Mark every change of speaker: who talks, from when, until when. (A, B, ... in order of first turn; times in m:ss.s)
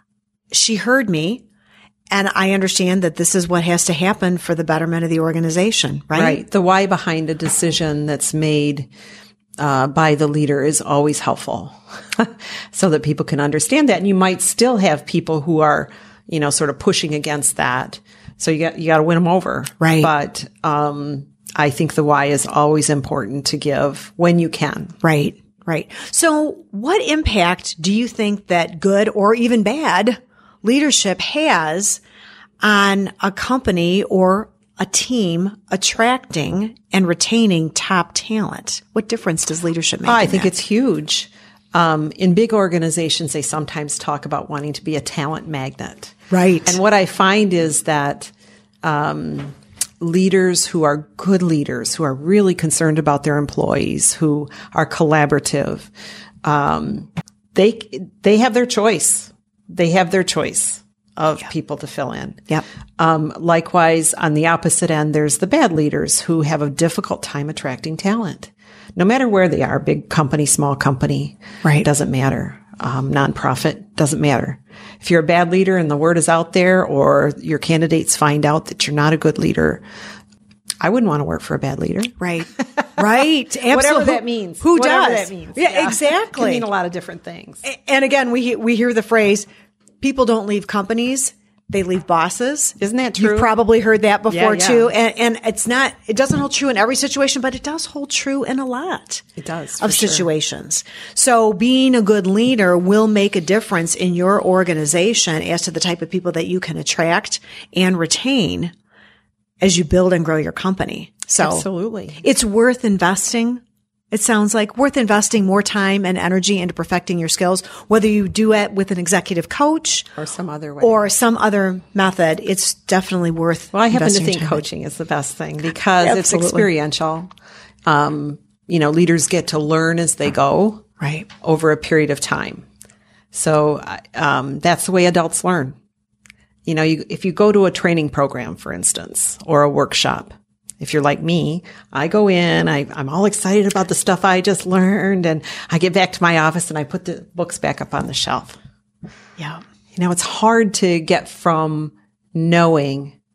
0:00.5-0:01.4 A
0:02.1-0:06.4 A
0:06.1-0:08.9 B
0:09.6-0:25.0 B
0:19.8-0:20.1 A
0:25.0-0:32.0 A
0:32.6-0:40.5 A
0:40.0-0:48.3 B
0:46.3-0:46.8 A
0:48.8-0:55.9 B
0:56.4-1:02.5 B
1:03.0-1:19.8 B
1:20.8-1:22.6 B
1:22.2-1:26.7 A
1:23.7-1:27.6 B
1:27.6-1:29.5 A
1:30.0-1:39.2 A
1:32.8-1:33.5 B
1:34.3-1:34.9 B
1:39.4-1:40.3 B
1:39.8-1:48.7 A
1:49.6-1:51.7 A
1:51.4-1:52.2 B
1:52.2-2:00.1 A
2:00.2-2:01.0 B
2:00.8-2:04.6 A
2:03.7-2:07.3 B
2:06.0-2:06.7 A
2:07.8-2:10.8 B
2:11.0-2:11.3 A
2:11.4-2:12.6 B
2:13.3-2:15.8 B
2:16.7-2:28.6 B
2:29.4-2:29.6 A
2:29.9-2:33.1 B